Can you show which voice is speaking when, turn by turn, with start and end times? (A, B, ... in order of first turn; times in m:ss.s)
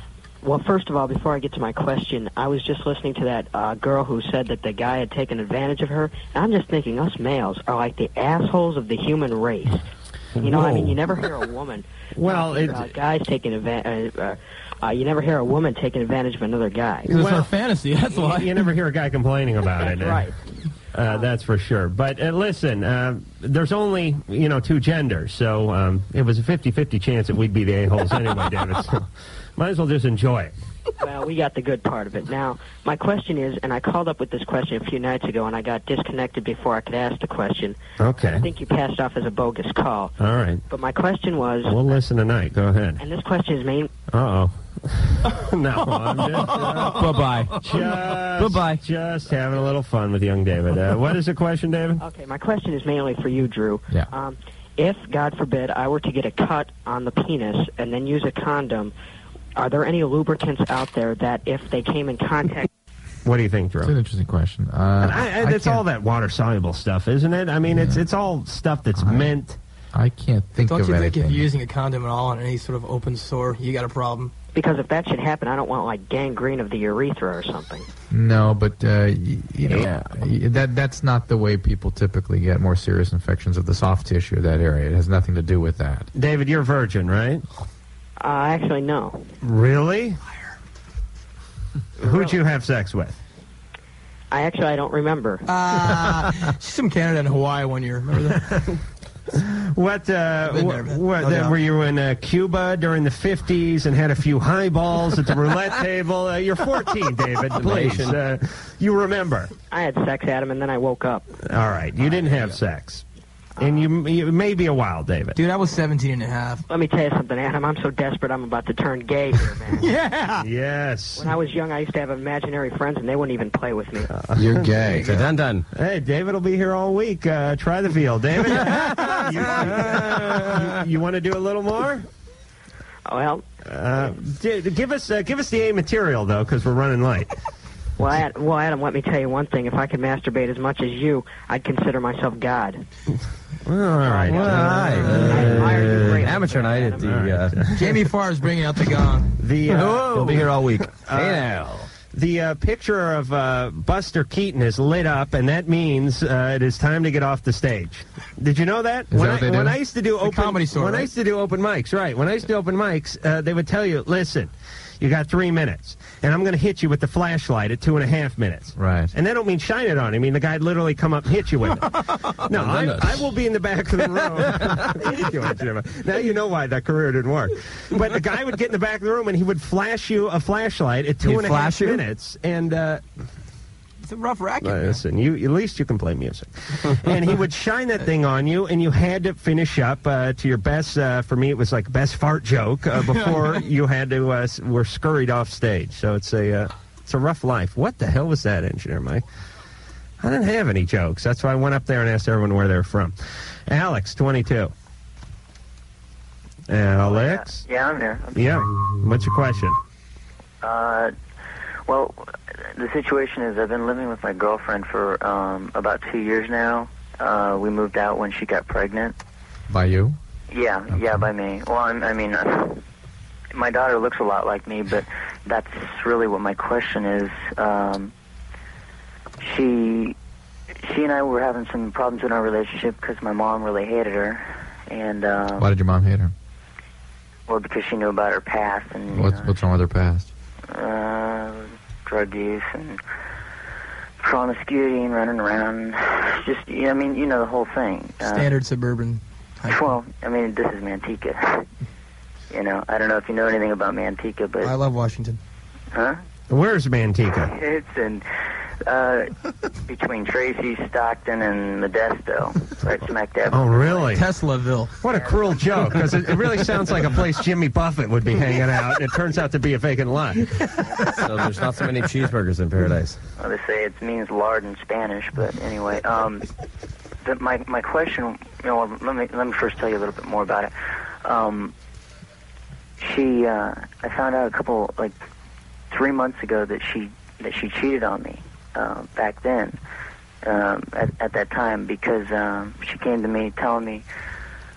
0:00.4-0:09.8 A
0:10.4-0:17.1 A
0:10.4-0:10.9 B
0:12.2-0:12.9 B
0:17.1-0:17.5 B
0:17.1-0:18.7 C
0:18.1-0:20.2 B
0:19.8-0:20.3 A
0:20.9-0:29.1 B
0:29.6-0:30.5 B
0:31.0-0:40.1 A
0:38.0-0:38.4 B
0:40.2-0:40.6 B
0:40.7-0:42.0 A
0:41.7-0:43.0 B
0:43.0-0:43.9 A
0:44.1-0:52.0 B
0:46.8-0:48.8 D
0:52.0-0:58.9 A
0:59.6-1:02.7 A
1:03.2-1:03.9 B
1:03.8-1:05.8 E
1:05.0-1:09.6 B
1:07.7-1:08.0 E
1:09.0-1:09.4 E
1:09.9-1:11.5 E
1:10.6-1:14.3 C
1:14.6-1:17.9 A
1:18.1-1:26.1 E
1:26.2-1:27.4 B
1:28.2-1:29.2 A
1:29.4-1:30.2 B
1:32.0-1:33.2 B
1:34.3-1:35.4 A
1:35.5-1:38.6 C
1:39.8-1:49.5 B
1:40.5-1:41.6 C
1:47.5-1:48.2 D
1:49.7-1:51.3 A
1:51.5-1:53.0 B
1:53.6-1:55.4 B
1:55.4-1:56.6 C
1:56.7-1:59.9 A
1:59.8-2:00.5 C
2:00.4-2:01.3 B
2:01.2-2:04.1 A
2:04.1-2:05.2 B
2:04.3-2:05.2 E
2:04.9-2:05.6 D
2:05.7-2:12.0 B
2:09.6-2:10.5 D
2:13.1-2:13.4 A
2:13.7-2:17.3 B
2:18.0-2:22.8 A
2:23.7-2:26.1 B
2:24.0-2:27.2 A
2:24.2-2:27.6 D
2:27.0-2:28.0 B
2:27.8-2:29.3 C
2:29.4-3:03.0 B
2:29.7-2:31.9 D
2:39.1-2:39.8 E
2:40.2-2:41.1 C
2:48.8-2:49.1 E
2:52.5-2:53.3 D
2:54.4-2:54.7 D
3:01.2-3:02.0 D
3:04.0-3:05.0 C
3:04.6-3:19.2 B
3:13.2-3:13.6 C
3:20.2-3:23.2 B
3:23.7-3:24.7 B
3:26.7-3:27.6 B
3:27.0-3:28.6 F
3:28.4-3:29.8 B
3:30.6-3:31.1 F
3:31.9-3:39.2 F
3:39.7-3:40.2 E
3:40.5-3:42.8 F
3:40.9-3:41.3 E
3:43.5-3:48.1 F
3:49.4-3:50.2 F
3:50.8-3:55.7 F
3:55.6-3:56.3 E
3:57.5-3:59.5 F
3:59.1-4:00.3 E
4:00.7-4:03.0 F
4:04.2-4:08.5 F
4:08.2-4:10.0 C
4:09.7-4:11.7 F
4:12.5-4:14.7 F
4:14.6-4:15.4 C
4:15.9-4:16.2 F
4:16.5-4:17.5 B
4:17.5-4:18.3 F
4:18.8-4:19.3 F
4:19.9-4:24.1 F
4:23.5-4:24.2 B
4:24.1-4:25.0 C
4:25.0-4:30.5 B
4:25.1-4:25.6 F
4:31.0-4:33.2 D
4:33.4-4:36.5 F
4:37.2-4:40.7 F
4:41.2-4:41.7 F
4:43.0-4:45.2 F
4:45.9-4:49.8 F
4:50.4-4:54.0 F